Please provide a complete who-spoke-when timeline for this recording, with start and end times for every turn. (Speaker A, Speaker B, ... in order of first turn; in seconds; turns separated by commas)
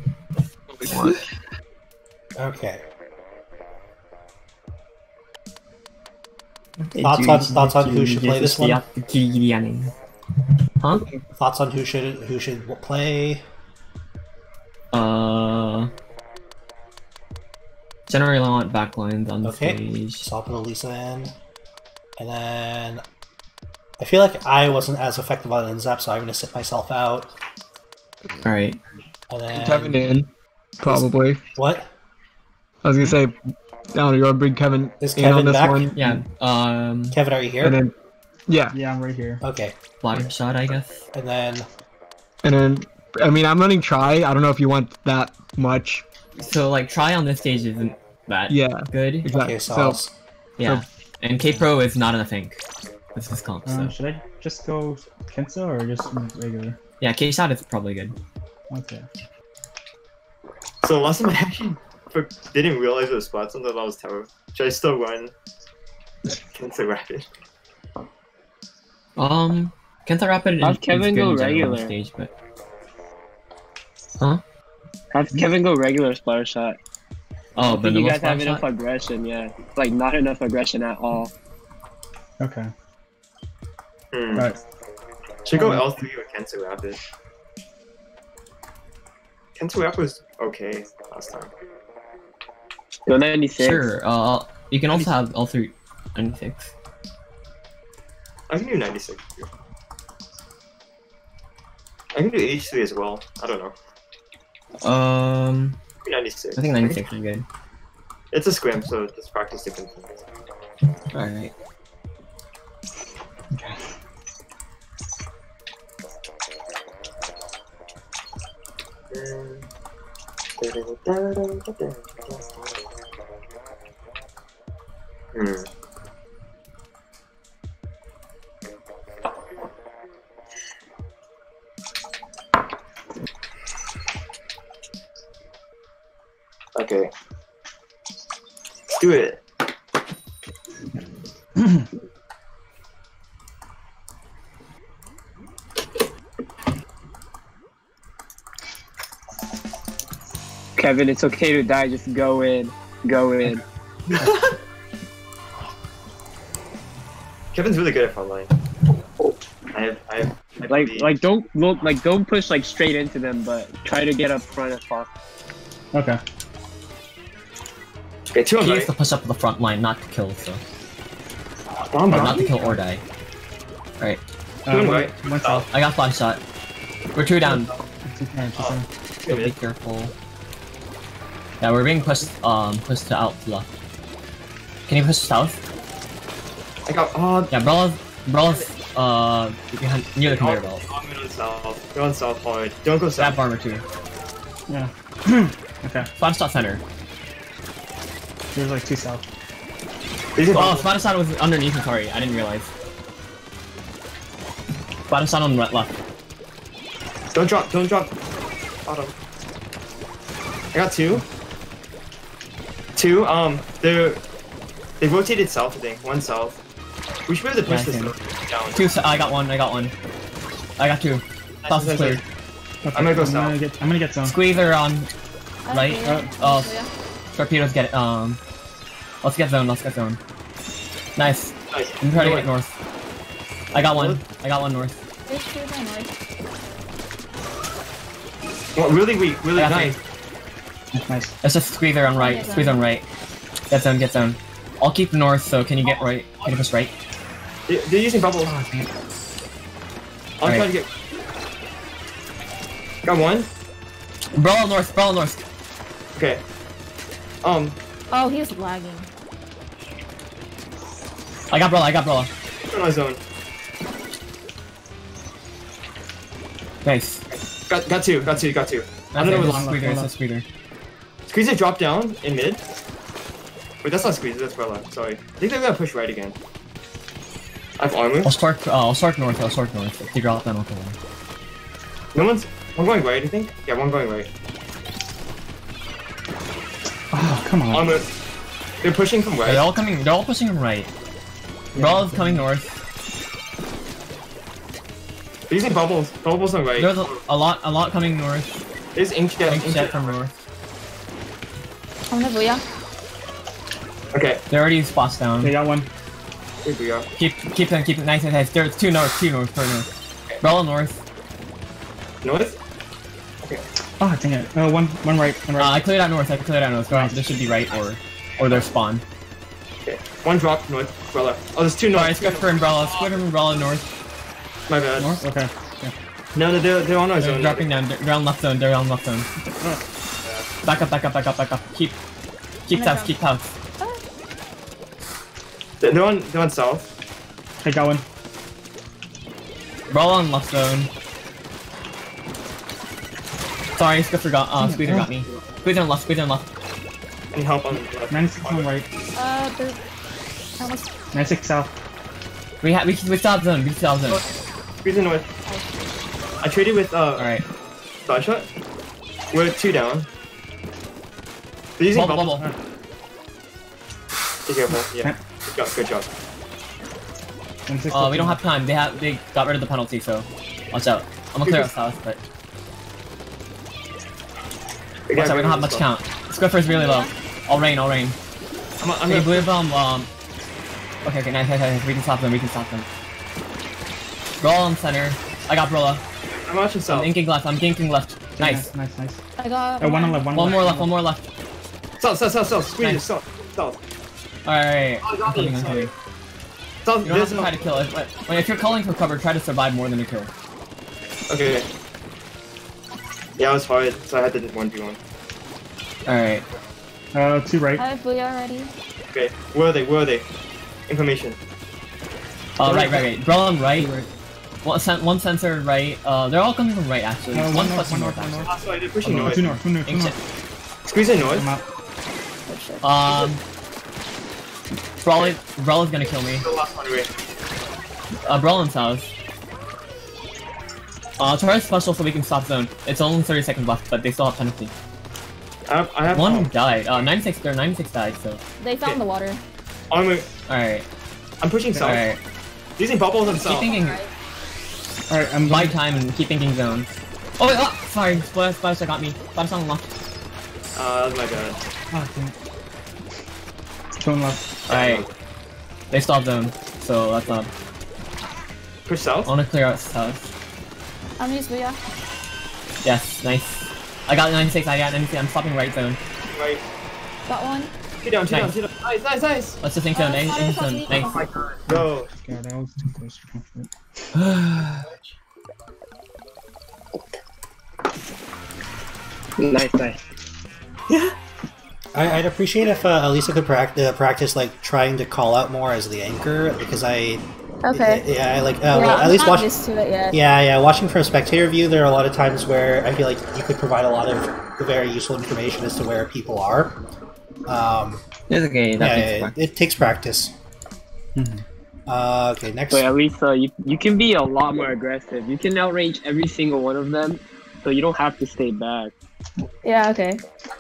Speaker A: 0.7-1.2, Speaker B: 2.4-2.8, Speaker C: 6.9-9.9, Speaker B: 7.0-8.8, Speaker C: 10.8-11.1, Speaker A: 10.9-11.2, Speaker B: 11.3-13.4, Speaker C: 14.9-15.9, Speaker C: 18.1-20.3, Speaker B: 19.4-21.3, Speaker B: 22.2-23.0, Speaker B: 24.0-27.3, Speaker C: 28.4-28.8, Speaker B: 29.3-30.0, Speaker A: 29.5-30.3, Speaker A: 30.8-31.4, Speaker B: 30.9-31.9, Speaker A: 32.8-33.4, Speaker A: 33.9-36.2, Speaker B: 35.0-36.2, Speaker C: 36.0-37.2, Speaker B: 37.1-37.8, Speaker A: 37.6-37.9, Speaker A: 38.5-38.8, Speaker D: 38.7-39.4, Speaker B: 39.4-39.8, Speaker C: 40.0-41.0, Speaker B: 41.1-41.7, Speaker A: 42.4-46.0, Speaker C: 46.4-49.3, Speaker A: 48.5-50.0, Speaker B: 49.3-50.1, Speaker C: 50.6-52.6, Speaker C: 53.1-53.9, Speaker D: 53.7-56.8, Speaker C: 57.0-58.1, Speaker D: 58.7-59.0, Speaker E: 60.8-65.3, Speaker E: 66.5-67.3, Speaker C: 69.2-72.3, Speaker F: 70.6-72.0, Speaker F: 75.1-76.8, Speaker C: 77.6-78.6, Speaker F: 77.6-81.3, Speaker D: 82.4-82.7, Speaker E: 84.1-84.5, Speaker E: 85.5-87.0, Speaker D: 85.6-85.8, Speaker E: 89.6-91.5, Speaker F: 93.1-93.9, Speaker C: 93.6-96.7, Speaker E: 98.5-99.5, Speaker E: 102.1-103.7, Speaker C: 104.8-105.8, Speaker E: 106.0-107.0, Speaker C: 106.6-107.5, Speaker E: 108.3-110.2, Speaker C: 111.1-111.5, Speaker D: 113.5-113.8, Speaker E: 119.1-119.7, Speaker E: 120.6-122.7, Speaker E: 125.3-125.7, Speaker E: 136.8-137.1, Speaker E: 139.0-139.4, Speaker D: 141.6-141.9, Speaker F: 150.8-153.6, Speaker E: 154.1-154.6, Speaker E: 157.5-158.5, Speaker E: 159.7-161.1, Speaker F: 160.7-165.1, Speaker D: 165.9-166.2, Speaker E: 168.3-168.9, Speaker C: 168.6-170.6, Speaker E: 171.9-172.5, Speaker D: 172.1-172.8, Speaker C: 172.1-173.0, Speaker D: 174.7-175.7, Speaker E: 174.7-175.7, Speaker C: 175.7-176.4, Speaker C: 177.2-177.7, Speaker E: 177.4-177.8, Speaker D: 178.1-178.9, Speaker E: 178.6-179.5, Speaker C: 179.3-180.1, Speaker C: 181.6-183.7, Speaker C: 184.9-185.6, Speaker E: 186.9-187.6, Speaker C: 187.5-190.8, Speaker E: 190.3-193.4, Speaker C: 193.2-193.8, Speaker D: 194.7-196.1, Speaker C: 196.2-196.8, Speaker D: 198.5-199.2, Speaker E: 200.4-200.9, Speaker C: 200.5-202.7, Speaker C: 205.1-205.9, Speaker E: 207.3-208.1, Speaker E: 208.9-209.1, Speaker E: 210.7-211.2, Speaker E: 212.9-214.2, Speaker E: 215.0-216.6, Speaker E: 217.3-218.8, Speaker C: 217.7-218.1, Speaker C: 218.8-219.9, Speaker C: 220.8-222.2, Speaker E: 221.6-222.2, Speaker D: 222.8-224.4, Speaker E: 222.9-223.6, Speaker C: 224.2-225.1, Speaker G: 225.7-226.9, Speaker C: 225.7-226.7, Speaker C: 227.3-228.4, Speaker C: 229.2-230.2, Speaker C: 231.2-232.7, Speaker E: 231.7-232.5, Speaker E: 233.7-234.2, Speaker C: 233.7-235.0, Speaker G: 235.3-236.1, Speaker E: 238.8-240.0, Speaker C: 239.6-240.0, Speaker D: 240.9-241.4, Speaker C: 241.4-243.1, Speaker G: 242.1-242.8, Speaker C: 243.7-246.9, Speaker E: 247.7-248.5, Speaker D: 248.5-248.9, Speaker E: 250.4-250.9, Speaker C: 250.4-250.7, Speaker E: 253.1-253.5, Speaker C: 254.4-255.4, Speaker E: 256.2-256.4, Speaker E: 257.4-257.8, Speaker G: 258.1-259.1, Speaker C: 261.5-262.3, Speaker E: 262.6-263.2, Speaker C: 266.8-267.2, Speaker E: 267.3-268.9, Speaker C: 269.1-270.4, Speaker D: 269.2-270.1, Speaker E: 271.3-272.6, Speaker E: 273.8-276.4, Speaker E: 277.8-278.3, Speaker C: 278.2-281.0, Speaker E: 282.1-284.3, Speaker D: 287.1-288.0, Speaker E: 287.7-288.1, Speaker E: 288.8-289.6, Speaker C: 289.5-290.9, Speaker C: 291.8-292.8, Speaker D: 291.8-292.4, Speaker E: 295.5-297.1, Speaker C: 296.8-298.6, Speaker E: 299.0-300.1, Speaker C: 299.5-300.3, Speaker G: 302.1-302.6, Speaker E: 304.1-304.4, Speaker C: 304.5-305.6, Speaker D: 305.4-305.9, Speaker E: 306.6-307.1, Speaker C: 307.2-309.9, Speaker C: 310.4-311.0, Speaker E: 312.2-312.6, Speaker D: 314.0-315.8, Speaker C: 315.6-319.0, Speaker D: 316.9-317.2, Speaker E: 319.9-323.2, Speaker C: 321.9-323.9, Speaker E: 324.7-325.1, Speaker D: 325.0-325.9, Speaker E: 326.4-327.7, Speaker C: 327.2-329.3, Speaker C: 330.6-331.9, Speaker C: 332.7-333.5, Speaker G: 332.7-333.1, Speaker E: 335.8-336.9, Speaker D: 337.6-338.1, Speaker C: 339.9-340.9, Speaker C: 343.8-346.4, Speaker D: 344.6-345.1, Speaker E: 347.3-348.7, Speaker D: 348.1-348.9, Speaker G: 349.2-349.8, Speaker G: 350.6-350.9, Speaker D: 351.1-351.7, Speaker C: 352.6-354.2, Speaker E: 354.8-355.2, Speaker G: 355.5-355.9, Speaker E: 356.4-357.3, Speaker C: 357.2-357.4, Speaker E: 358.1-358.5, Speaker E: 359.3-360.1, Speaker E: 361.8-362.4, Speaker C: 361.9-362.5, Speaker E: 364.5-366.1, Speaker D: 367.7-368.4, Speaker C: 367.9-372.2, Speaker E: 375.1-375.9, Speaker C: 375.2-378.2, Speaker G: 376.6-377.1, Speaker E: 378.8-379.5, Speaker C: 379.1-380.1, Speaker C: 381.1-382.9, Speaker C: 384.4-386.0, Speaker E: 386.5-387.1, Speaker C: 386.9-388.7, Speaker D: 388.4-389.2, Speaker G: 389.4-390.4, Speaker D: 389.8-390.9, Speaker C: 390.4-391.2, Speaker E: 392.0-393.8, Speaker C: 392.8-393.1, Speaker C: 394.4-395.9, Speaker E: 395.0-395.9, Speaker E: 396.9-397.6, Speaker C: 397.0-400.3, Speaker E: 401.3-401.7, Speaker E: 403.4-405.0, Speaker C: 406.1-406.4, Speaker D: 407.1-407.8, Speaker G: 407.8-408.7, Speaker E: 409.1-410.3, Speaker E: 410.9-411.4, Speaker C: 412.6-413.9, Speaker D: 412.7-413.1, Speaker D: 413.8-414.1, Speaker C: 414.6-418.5, Speaker D: 417.3-420.1, Speaker E: 418.5-419.5, Speaker C: 419.1-420.2, Speaker E: 420.9-421.5, Speaker D: 421.2-421.6, Speaker G: 422.5-422.9, Speaker C: 422.8-423.4, Speaker C: 425.0-426.4, Speaker E: 425.1-425.4, Speaker E: 426.4-427.1, Speaker C: 428.2-429.1, Speaker C: 431.2-434.7, Speaker E: 435.7-436.5, Speaker C: 436.1-438.4, Speaker G: 438.6-439.4, Speaker E: 439.9-440.3, Speaker C: 440.5-440.9, Speaker E: 441.4-442.0, Speaker C: 441.8-442.2, Speaker E: 442.8-443.8, Speaker G: 443.2-444.1, Speaker C: 443.4-444.0, Speaker D: 445.1-445.8, Speaker C: 445.5-449.8, Speaker E: 450.8-451.6, Speaker D: 451.9-452.4, Speaker D: 454.0-454.5, Speaker E: 454.7-455.1, Speaker C: 454.7-455.0, Speaker C: 455.9-457.5, Speaker E: 458.9-459.3, Speaker C: 459.3-460.3, Speaker G: 461.2-461.8, Speaker C: 462.8-466.0, Speaker E: 466.3-466.6, Speaker G: 467.3-467.7, Speaker E: 468.0-469.6, Speaker C: 468.3-468.6, Speaker C: 469.6-471.1, Speaker G: 469.9-471.2, Speaker E: 470.9-472.1, Speaker D: 471.7-473.7, Speaker C: 474.1-474.9, Speaker E: 474.8-475.1, Speaker F: 479.4-480.0, Speaker B: 481.9-489.5, Speaker G: 487.6-488.0, Speaker G: 488.7-490.2, Speaker B: 490.1-496.8, Speaker B: 497.5-498.0, Speaker C: 498.3-499.4, Speaker B: 498.8-500.3, Speaker D: 501.2-501.4, Speaker B: 501.9-502.9, Speaker F: 502.7-508.9, Speaker G: 509.6-510.2